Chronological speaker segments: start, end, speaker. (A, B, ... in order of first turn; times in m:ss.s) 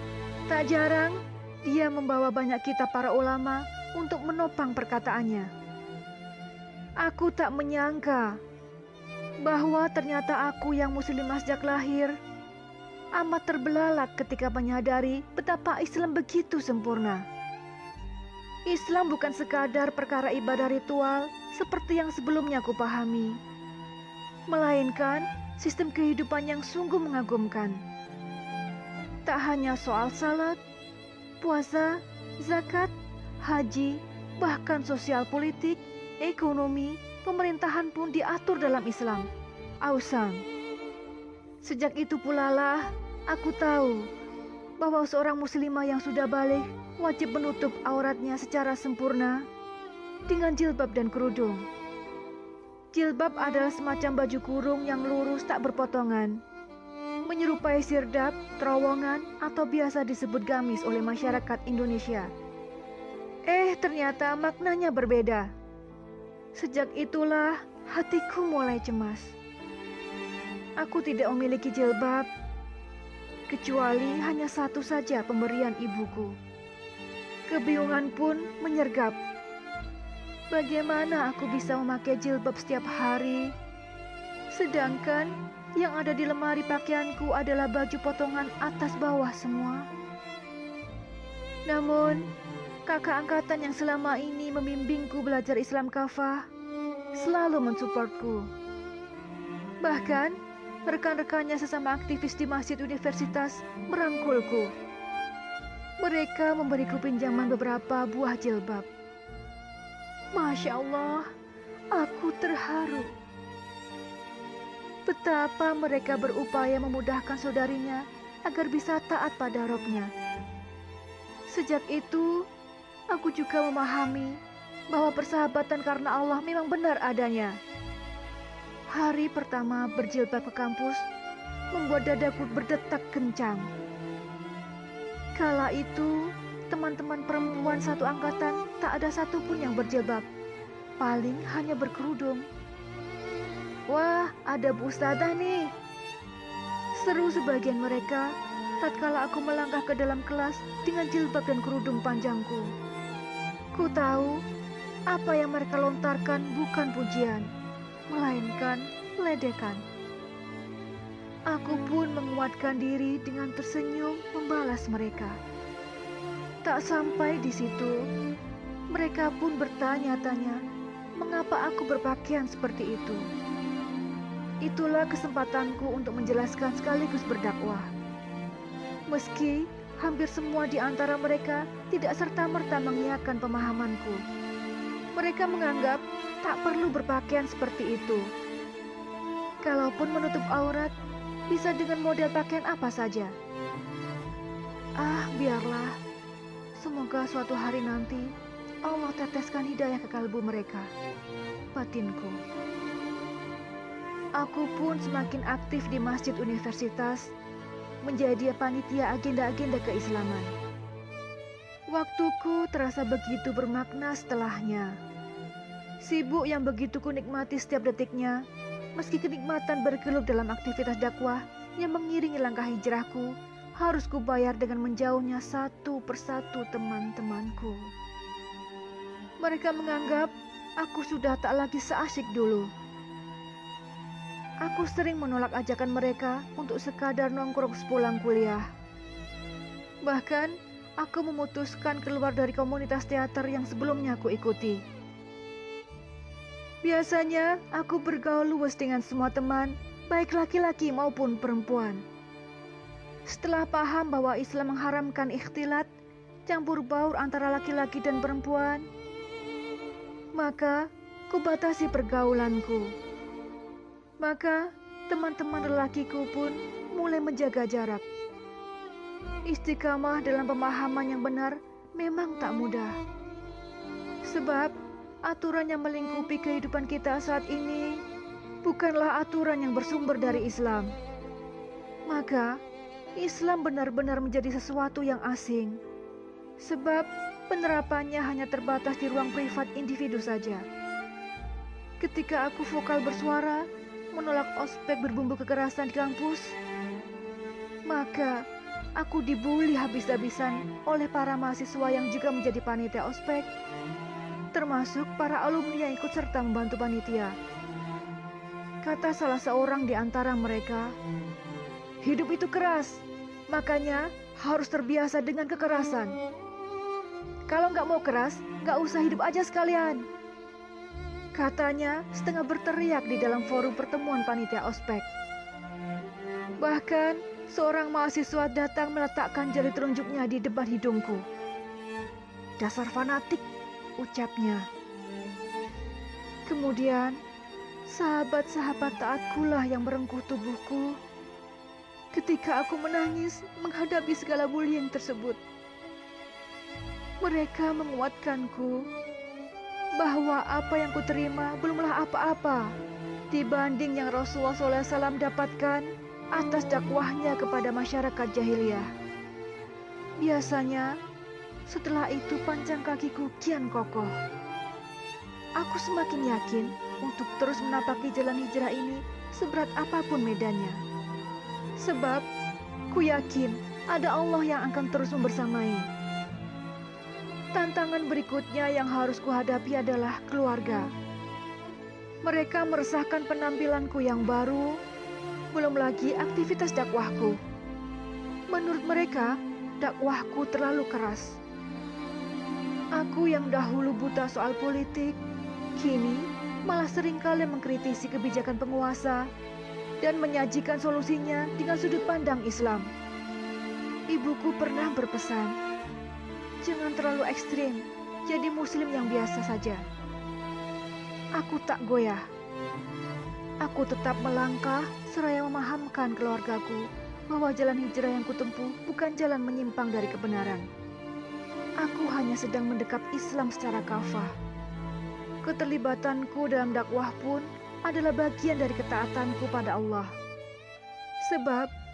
0:00.5-0:05.5 A
0:07.0-0:08.4 A
0:09.4-0:12.2 A
0:13.2-0:17.2 A
0:18.7-0:23.4 A
0:24.5-0:27.8 A
0:29.3-0:30.6 A
0:31.4-0:39.3 A
0:39.8-0:40.4 A
0:41.6-0:44.1 A
0:44.8-0:49.5 A
0:50.3-0:51.7 A
0:52.9-0:56.4 A
0:57.3-1:02.3 A
1:03.5-1:05.5 A
1:06.6-1:09.4 A
1:10.8-1:12.3 A
1:13.5-1:16.4 A
1:17.5-1:19.2 A
1:20.5-1:23.5 A
1:24.5-1:29.9 A
1:31.7-1:32.3 A
1:32.9-1:36.5 A
1:37.1-1:38.5 A
1:39.8-1:40.4 A
1:40.9-1:44.7 A
1:46.0-1:48.9 A
1:50.3-1:51.3 A
1:51.9-1:53.2 A
1:55.1-2:00.1 A
2:01.5-2:02.5 A
2:03.1-2:04.4 A
2:04.9-2:07.6 A
2:08.9-2:11.1 A
2:11.7-2:13.7 A
2:15.4-2:20.3 A
2:21.0-2:22.5 A
2:23.9-2:25.7 A
2:27.0-2:32.8 A
2:33.7-2:34.4 A
2:35.1-2:37.5 A
2:38.1-2:39.8 A
2:41.5-2:45.4 A
2:46.6-2:48.0 A
2:48.9-2:50.6 A
2:51.2-2:53.3 A
2:54.6-2:57.9 A
2:59.1-3:04.2 A
3:05.2-3:08.3 A
3:09.6-3:10.9 A
3:11.5-3:13.3 A
3:15.0-3:16.0 A
3:16.8-3:18.3 A
3:18.8-3:20.9 A
3:21.7-3:22.4 A
3:24.4-3:27.3 A
3:28.0-3:30.5 A
3:31.9-3:35.0 A
3:36.0-3:38.4 A
3:39.0-3:47.9 A
3:49.4-3:52.7 A
3:54.6-3:58.7 A
4:00.0-4:04.8 A
4:06.8-4:12.0 A
4:13.3-4:15.9 A
4:16.5-4:18.9 A
4:20.4-4:22.9 A
4:24.2-4:28.0 A
4:29.5-4:33.0 A
4:34.2-4:38.0 A
4:38.6-4:40.9 A
4:42.1-4:42.6 A
4:43.2-4:45.8 A
4:46.6-4:50.7 A
4:52.0-4:56.6 A
4:57.9-4:58.4 A
4:59.0-5:03.5 A
5:04.5-5:07.4 A
5:08.8-5:11.0 A
5:12.0-5:16.2 A
5:17.5-5:20.1 A
5:21.4-5:25.1 A
5:26.6-5:31.2 A
5:32.6-5:33.4 A
5:34.0-5:34.7 A
5:36.5-5:37.2 A
5:37.9-5:41.0 A
5:42.1-5:45.4 A
5:47.2-5:48.9 A
5:50.0-5:52.8 A
5:53.3-5:58.9 A
6:00.2-6:00.9 A
6:01.7-6:04.2 A
6:05.6-6:10.8 A
6:11.8-6:12.3 A
6:12.9-6:15.9 A
6:17.5-6:20.9 A
6:22.2-6:24.8 A
6:25.5-6:27.4 A
6:28.5-6:31.4 A
6:33.0-6:35.2 A
6:35.8-6:39.3 A
6:40.0-6:42.9 A
6:44.1-6:45.6 A
6:46.6-6:49.8 A
6:51.4-6:52.3 A
6:53.6-7:00.7 A
7:01.8-7:04.4 A
7:05.4-7:10.1 A
7:11.2-7:11.7 A